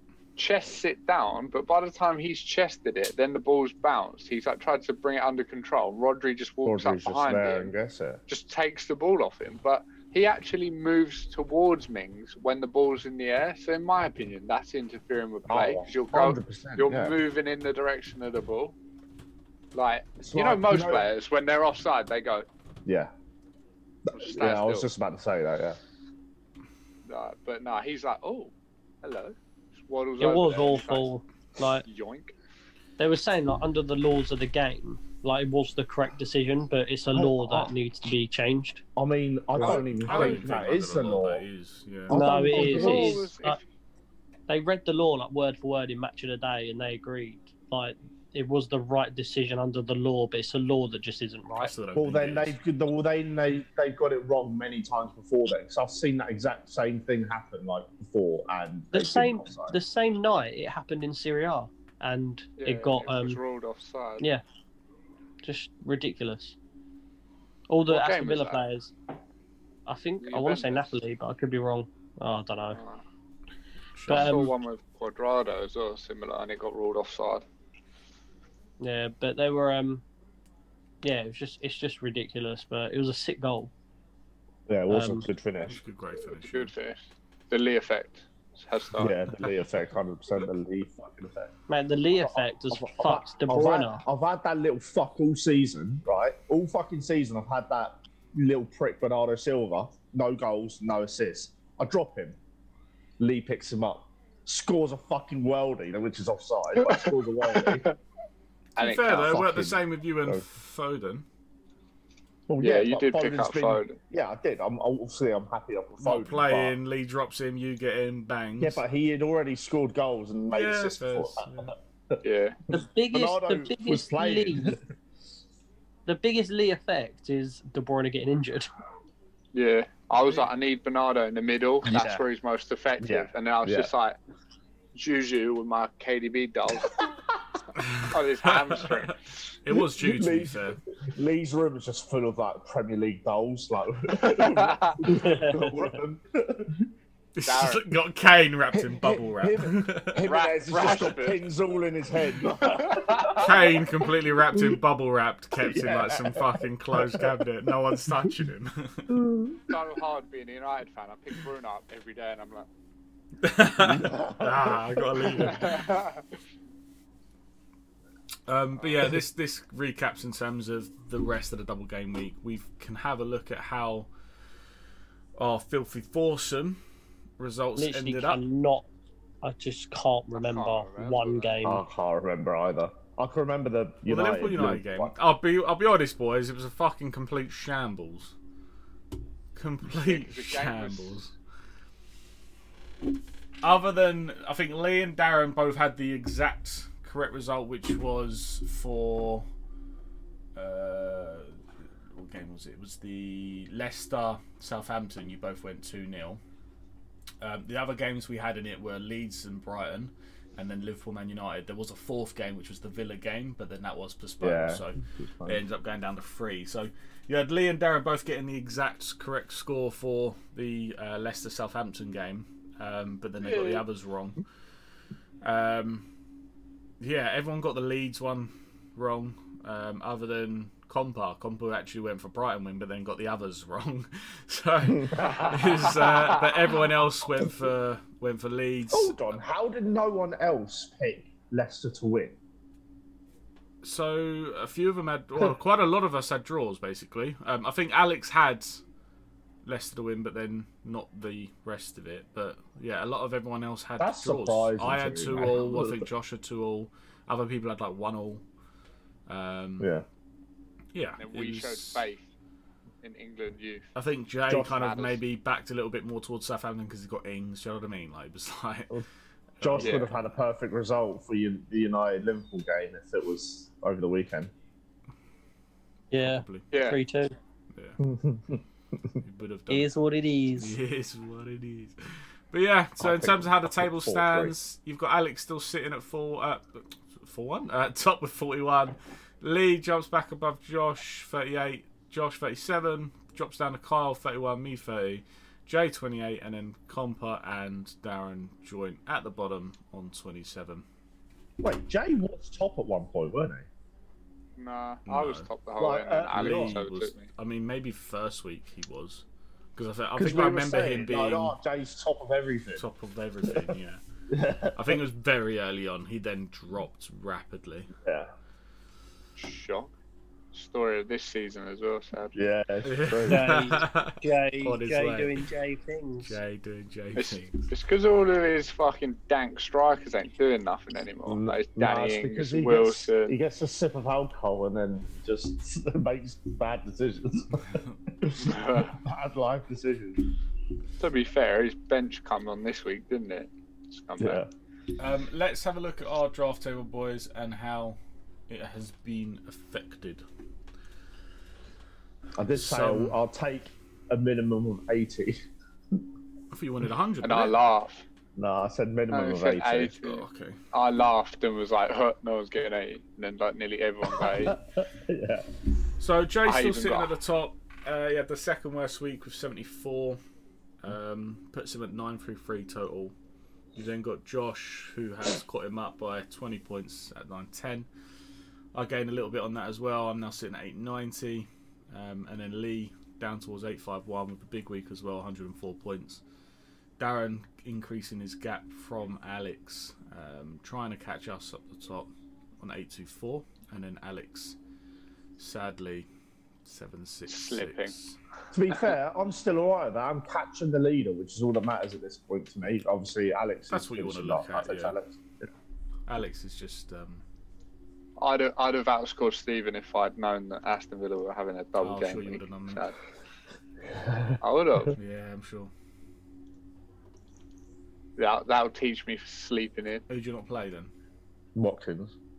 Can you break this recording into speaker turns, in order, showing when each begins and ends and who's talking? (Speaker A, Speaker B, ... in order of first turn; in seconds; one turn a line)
Speaker A: 0.4-7.7
Speaker B: 6.7-8.2
Speaker A: 8.3-18.8
Speaker B: 15.5-17.2
Speaker A: 19.7-22.5
Speaker B: 20.2-21.1
Speaker B: 22.9-23.1
Speaker B: 24.1-25.8
Speaker A: 24.1-24.9
Speaker A: 27.1-28.5
Speaker A: 29.0-31.1
Speaker C: 30.2-31.8
Speaker A: 31.9-32.3
Speaker C: 33.0-38.8
Speaker B: 37.1-37.7
Speaker B: 39.0-41.4
Speaker D: 39.6-42.3
Speaker A: 39.6-40.5
Speaker B: 42.1-43.3
Speaker C: 42.1-43.6
Speaker A: 42.5-43.6
Speaker C: 44.5-51.7
Speaker D: 51.6-52.6
Speaker B: 52.0-59.8
Speaker C: 58.9-63.4
Speaker A: 62.6-64.2
Speaker C: 65.4-66.6
Speaker C: 67.7-68.9
Speaker A: 67.9-68.6
Speaker C: 69.9-72.8
Speaker A: 70.2-70.9
Speaker A: 72.8-73.0
Speaker D: 73.9-74.5
Speaker C: 74.1-74.5
Speaker A: 74.1-77.5
Speaker C: 78.8-80.0
Speaker C: 81.0-83.7
Speaker B: 84.7-85.8
Speaker C: 84.9-85.3
Speaker D: 85.7-86.7
Speaker A: 86.2-87.0
Speaker A: 87.5-89.2
Speaker B: 89.0-91.5
Speaker C: 91.7-94.0
Speaker B: 92.1-102.4
Speaker B: 103.2-107.9
Speaker A: 106.8-107.9
Speaker A: 108.8-109.4
Speaker D: 108.8-111.2
Speaker B: 109.1-110.4
Speaker B: 112.5-116.8
Speaker A: 112.6-114.0
Speaker D: 116.0-118.8
Speaker B: 118.6-122.2
Speaker D: 120.5-121.7
Speaker A: 122.2-122.6
Speaker C: 122.7-124.8
Speaker B: 123.1-124.8
Speaker C: 126.1-128.7
Speaker A: 129.5-134.2
Speaker B: 131.8-132.2
Speaker B: 133.0-133.9
Speaker A: 134.9-137.0
Speaker D: 137.8-139.1
Speaker A: 138.1-139.6
Speaker D: 139.6-140.8
Speaker B: 139.7-146.9
Speaker A: 144.1-145.1
Speaker C: 145.1-145.7
Speaker D: 147.4-150.2
Speaker A: 147.4-147.8
Speaker B: 148.7-153.8
Speaker A: 150.2-151.4
Speaker A: 152.7-153.5
Speaker D: 153.4-159.2
Speaker B: 154.5-154.8
Speaker B: 155.6-158.3
Speaker B: 159.1-159.8
Speaker A: 159.7-162.7
Speaker D: 163.4-165.9
Speaker B: 163.8-165.6
Speaker A: 165.4-166.2
Speaker D: 168.5-174.1
Speaker D: 175.4-176.8
Speaker D: 177.4-178.4
Speaker C: 177.8-178.9
Speaker C: 179.4-181.8
Speaker A: 180.3-181.6
Speaker B: 181.6-185.1
Speaker D: 184.1-188.3
Speaker D: 189.6-191.3
Speaker A: 189.9-191.2
Speaker D: 193.6-199.5
Speaker D: 200.6-201.6
Speaker D: 202.1-206.4
Speaker D: 207.4-224.4
Speaker B: 214.4-215.6
Speaker A: 223.4-223.8
Speaker D: 225.4-226.1
Speaker D: 227.0-239.2
Speaker B: 234.8-235.9
Speaker B: 238.9-242.4
Speaker D: 243.8-248.8
Speaker D: 249.6-258.4
Speaker B: 254.0-256.1
Speaker D: 259.3-259.9
Speaker B: 259.8-260.1
Speaker D: 260.9-262.1
Speaker A: 261.2-262.3
Speaker A: 263.0-263.9
Speaker D: 263.9-269.0
Speaker B: 264.5-264.9
Speaker A: 264.7-265.2
Speaker D: 269.6-270.1
Speaker B: 269.6-274.5
Speaker A: 269.8-270.1
Speaker C: 276.1-277.3
Speaker D: 276.2-276.7
Speaker A: 276.7-277.0
Speaker D: 277.7-278.0
Speaker B: 278.0-279.2
Speaker D: 279.2-279.9
Speaker C: 279.7-280.8
Speaker D: 280.6-300.9
Speaker B: 283.0-284.6
Speaker B: 301.6-303.7
Speaker A: 304.6-307.3
Speaker D: 305.1-305.5
Speaker B: 305.8-306.8
Speaker D: 306.3-309.2
Speaker D: 309.8-311.5
Speaker B: 310.2-312.9
Speaker D: 312.8-314.0
Speaker B: 313.5-313.8
Speaker B: 314.3-315.0
Speaker D: 314.8-317.9
Speaker B: 318.0-318.3
Speaker A: 319.4-319.9
Speaker A: 320.5-322.3
Speaker B: 322.3-323.6
Speaker D: 322.8-325.4
Speaker C: 323.3-326.4
Speaker D: 326.2-327.7
Speaker A: 327.2-333.4
Speaker B: 331.3-340.3
Speaker A: 338.4-339.0
Speaker A: 341.0-344.4
Speaker B: 344.2-344.5
Speaker D: 345.0-348.0
Speaker D: 348.5-350.2
Speaker B: 352.4-355.4
Speaker D: 352.6-353.2
Speaker D: 356.5-357.5
Speaker A: 357.2-358.0
Speaker B: 358.4-359.9
Speaker A: 359.1-364.6
Speaker D: 360.0-360.6
Speaker B: 364.2-365.5
Speaker D: 366.0-370.2
Speaker A: 366.4-367.1
Speaker D: 370.8-373.1
Speaker D: 373.8-377.9
Speaker D: 378.7-386.2
Speaker D: 387.0-394.6
Speaker D: 395.4-396.1
Speaker D: 396.6-398.2
Speaker A: 397.3-397.9
Speaker B: 398.5-405.5
Speaker D: 403.7-404.9
Speaker D: 406.1-407.2
Speaker A: 408.2-412.9
Speaker D: 411.8-412.9
Speaker B: 413.9-414.4
Speaker A: 414.4-415.0
Speaker D: 414.9-415.7
Speaker A: 418.2-420.0
Speaker D: 420.1-420.9
Speaker B: 421.6-422.1